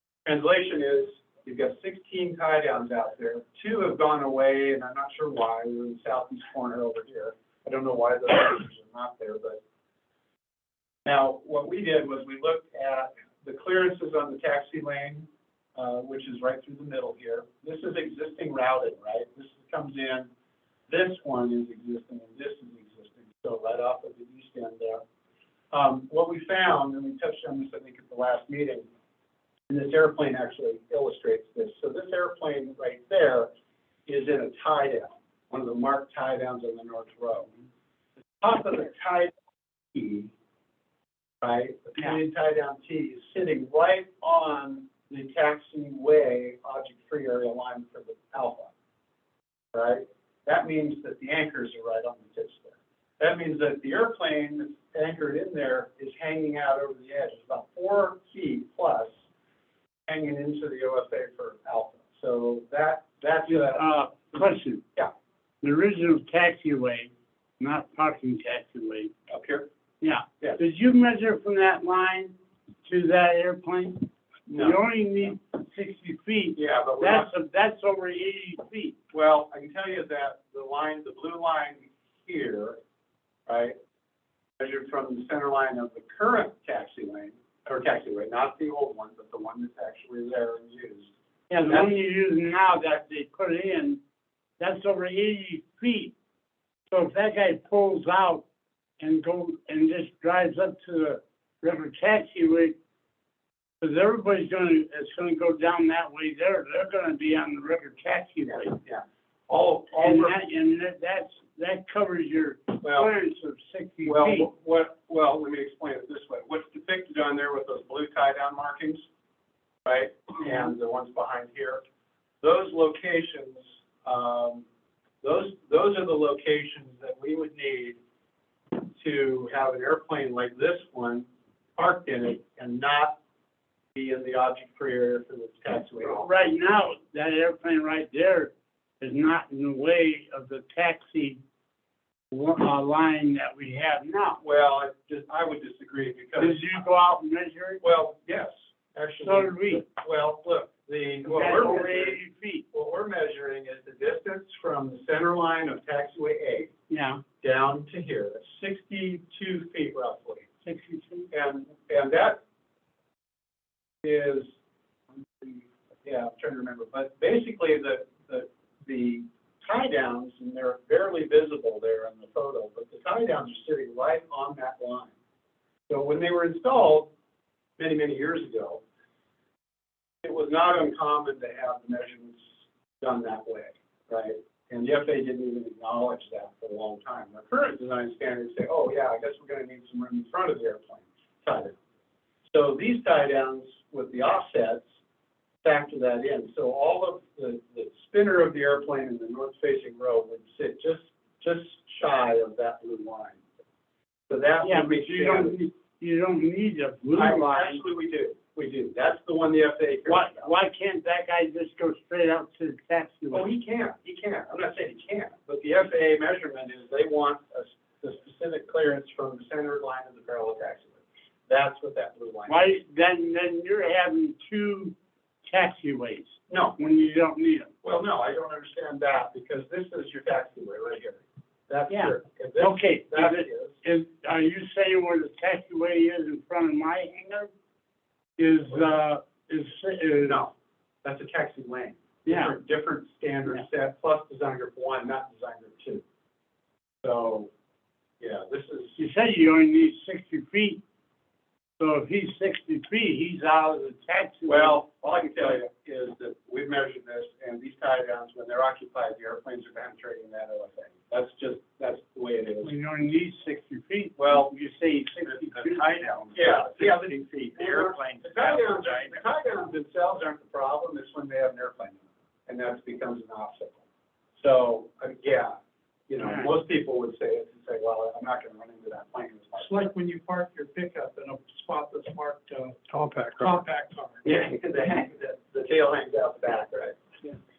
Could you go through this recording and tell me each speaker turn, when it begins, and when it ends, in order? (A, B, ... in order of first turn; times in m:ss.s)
0:00.2-0:09.6 A
0:11.0-0:20.3 A
0:20.9-0:25.0 A
0:25.7-0:28.9 A
0:29.7-0:33.5 A
0:34.1-0:37.5 A
0:38.4-0:39.3 A
0:39.9-0:40.3 A
0:41.4-0:48.7 A
0:49.7-0:59.1 A
1:00.1-1:03.8 A
1:03.5-1:04.8 B
1:05.6-1:09.1 B
1:09.3-1:09.7 A
1:10.0-1:19.0 B
1:14.5-1:14.8 A
1:16.6-1:17.3 A
1:19.1-1:22.8 A
1:23.5-1:23.8 A
1:24.6-1:31.1 A
1:31.5-1:34.0 B
1:31.6-1:31.9 A
1:34.6-1:36.1 B
1:36.9-1:38.4 B
1:39.0-1:42.8 B
1:43.8-1:48.8 B
1:48.8-1:50.4 A
1:50.0-1:54.5 B
1:52.8-1:53.1 A
1:54.1-1:59.0 A
1:59.8-2:01.8 A
2:02.4-2:04.6 A
2:05.2-2:08.0 A
2:08.8-2:13.2 A
2:14.0-2:16.3 A
2:16.0-2:21.4 B
2:22.3-2:24.4 B
2:24.4-2:26.8 A
2:26.4-2:27.8 B
2:27.8-2:32.2 A
2:29.2-2:29.9 B
2:31.3-2:32.6 B
2:32.7-2:36.7 A
2:36.9-2:37.2 B
2:37.4-2:40.5 A
2:40.6-2:41.3 B
2:41.3-2:42.4 A
2:44.0-2:44.5 A
2:45.1-2:55.1 A
2:55.9-2:57.1 A
2:57.8-2:58.8 A
3:00.2-3:02.4 A
3:03.0-3:11.8 A
3:12.5-3:14.9 A
3:15.6-3:23.4 A
3:24.3-3:25.6 A
3:24.6-3:27.8 B
3:27.2-3:30.5 A
3:30.1-3:33.5 B
3:33.3-3:42.8 A
3:42.5-3:45.0 B
3:45.5-3:47.7 B
3:46.5-3:46.8 A
3:47.8-3:53.8 A
3:51.9-3:57.5 B
3:58.4-4:00.4 B
4:00.3-4:00.5 A
4:01.0-4:06.0 A
4:02.3-4:02.5 B
4:07.0-4:07.5 A
4:08.2-4:09.0 A
4:09.0-4:10.8 B
4:11.8-4:14.8 B
4:14.5-4:22.7 A
4:22.6-4:26.3 B
4:24.2-4:24.5 A
4:25.7-4:29.2 C
4:26.3-4:33.8 A
4:34.4-4:35.6 A
4:36.1-4:39.7 A
4:36.2-4:36.5 B
4:39.6-4:44.2 C
4:44.2-4:47.0 A